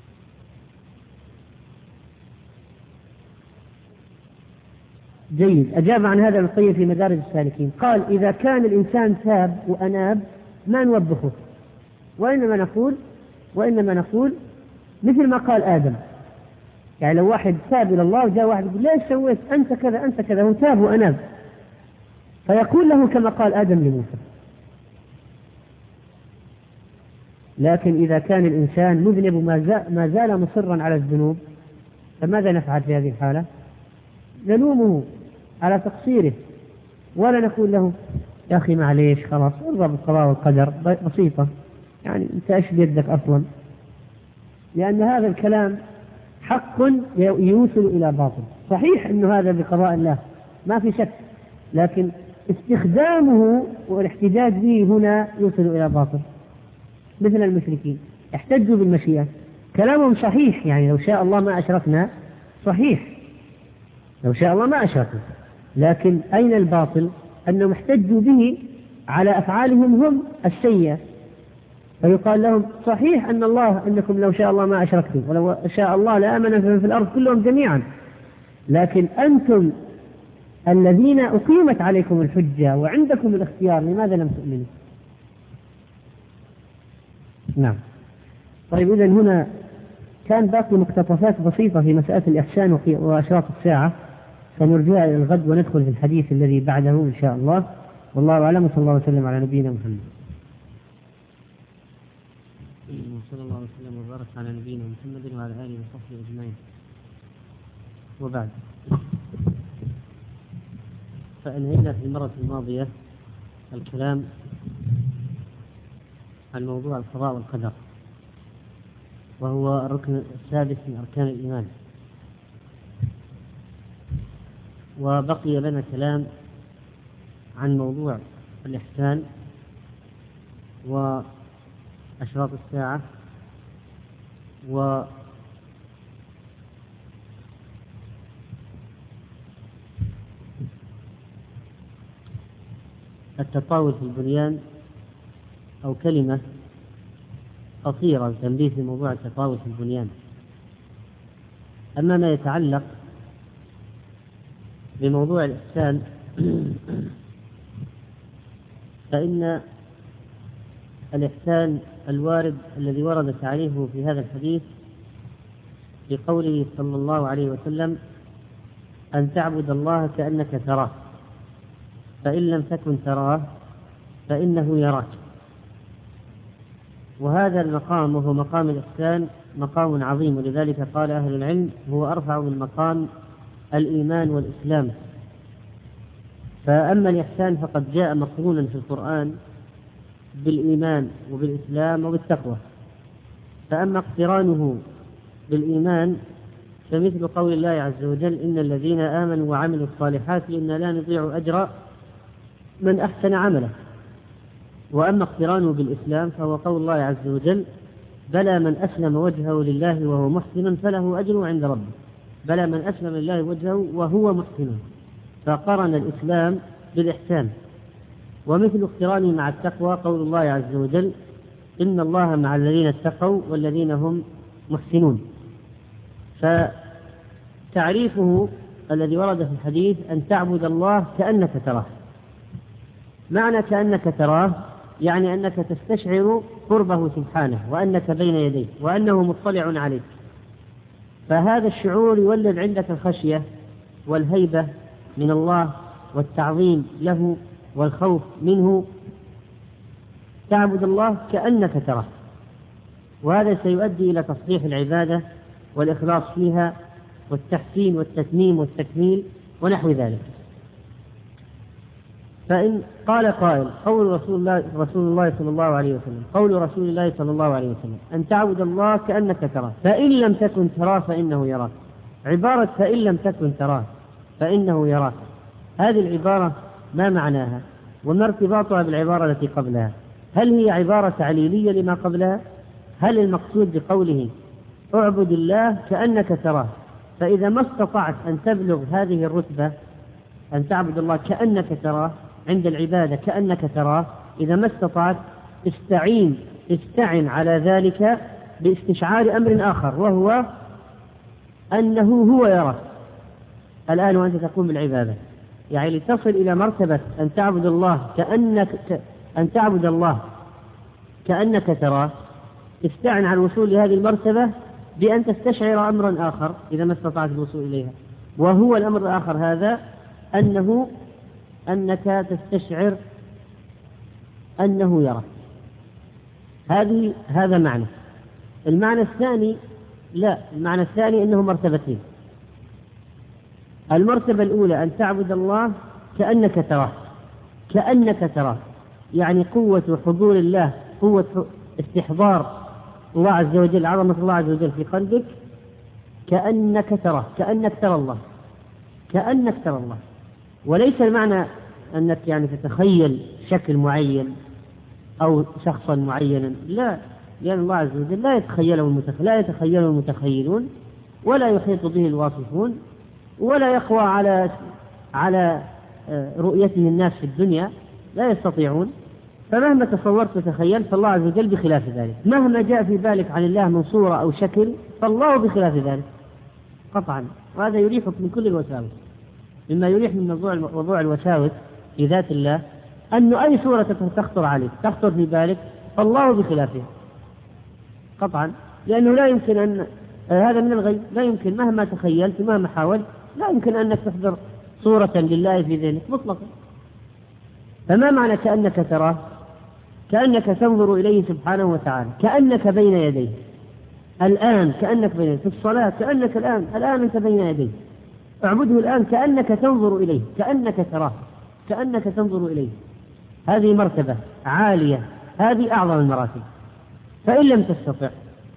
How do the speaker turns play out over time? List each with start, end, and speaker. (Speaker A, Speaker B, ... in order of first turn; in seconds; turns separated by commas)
Speaker A: 5.3-11.4, Speaker A: 12.2-13.0, Speaker A: 13.6-14.3, Speaker A: 15.0-16.0, Speaker A: 17.0-21.2, Speaker A: 22.5-24.2, Speaker A: 27.6-31.4, Speaker A: 32.2-33.5, Speaker A: 34.5-35.1, Speaker A: 35.6-36.4, Speaker A: 37.2-37.9, Speaker A: 38.5-41.5, Speaker A: 42.0-43.5, Speaker A: 44.8-45.8, Speaker A: 46.4-51.2, Speaker A: 51.7-56.2, Speaker A: 57.2-62.1, Speaker A: 62.6-63.1, Speaker A: 64.2-65.2, Speaker A: 65.8-68.6, Speaker A: 69.1-71.0, Speaker A: 72.0-77.8, Speaker A: 78.7-79.7, Speaker A: 80.7-84.7, Speaker A: 88.7-89.5, Speaker A: 90.3-93.9, Speaker A: 94.6-100.1, Speaker A: 102.9-106.6, Speaker A: 108.2-108.5, Speaker A: 111.4-112.9, Speaker A: 113.7-114.3, Speaker A: 116.5-117.8, Speaker A: 119.4-121.7, Speaker A: 125.0-126.3, Speaker A: 127.6-129.2, Speaker A: 130.8-131.3, Speaker A: 132.2-133.0, Speaker A: 134.7-135.1, Speaker A: 143.4-144.6, Speaker A: 145.8-146.4, Speaker A: 147.8-150.1, Speaker A: 152.0-152.9, Speaker A: 155.0-157.0, Speaker A: 159.1-159.6, Speaker A: 161.1-164.7, Speaker A: 166.1-168.0, Speaker A: 169.2-171.0, Speaker A: 172.2-173.5, Speaker A: 174.3-175.2, Speaker A: 177.2-183.1, Speaker A: 183.7-184.9, Speaker A: 186.6-189.3, Speaker A: 190.4-192.6, Speaker A: 193.7-194.8, Speaker A: 195.5-196.2, Speaker A: 196.9-201.7, Speaker A: 202.8-203.7, Speaker A: 204.9-207.7, Speaker A: 208.3-211.9, Speaker A: 212.5-214.8, Speaker A: 215.5-217.5, Speaker A: 218.5-221.1, Speaker A: 221.8-225.2, Speaker A: 226.4-226.8, Speaker A: 227.7-231.9, Speaker A: 233.3-240.1, Speaker A: 241.3-243.4, Speaker A: 244.1-248.9, Speaker A: 250.5-252.1, Speaker A: 253.2-255.2, Speaker A: 255.8-256.7, Speaker A: 257.3-260.3, Speaker A: 262.5-271.7, Speaker A: 272.3-273.9, Speaker A: 274.4-275.2, Speaker A: 275.8-282.4, Speaker A: 283.0-284.3, Speaker A: 284.9-289.7, Speaker A: 290.5-300.5, Speaker A: 301.7-302.8, Speaker A: 303.9-305.2, Speaker A: 305.7-310.2, Speaker A: 311.3-312.1, Speaker A: 312.8-319.8, Speaker A: 320.3-320.9, Speaker A: 321.7-323.0, Speaker A: 324.6-325.4, Speaker A: 326.7-327.9, Speaker A: 328.7-329.6, Speaker A: 330.1-332.0, Speaker A: 333.9-337.0, Speaker A: 337.7-338.6, Speaker A: 339.2-342.5, Speaker A: 343.1-345.3, Speaker A: 346.3-348.2, Speaker A: 349.1-350.0, Speaker A: 350.7-354.3, Speaker A: 355.2-360.7, Speaker A: 361.2-362.8, Speaker A: 363.4-364.6, Speaker A: 365.2-368.9, Speaker A: 369.5-376.1, Speaker A: 376.9-378.9, Speaker A: 379.7-382.6, Speaker A: 383.1-386.9, Speaker A: 388.2-396.5, Speaker A: 397.9-399.2, Speaker A: 400.1-403.4, Speaker A: 404.2-407.7, Speaker A: 408.4-412.8, Speaker A: 413.5-416.4, Speaker A: 417.2-418.1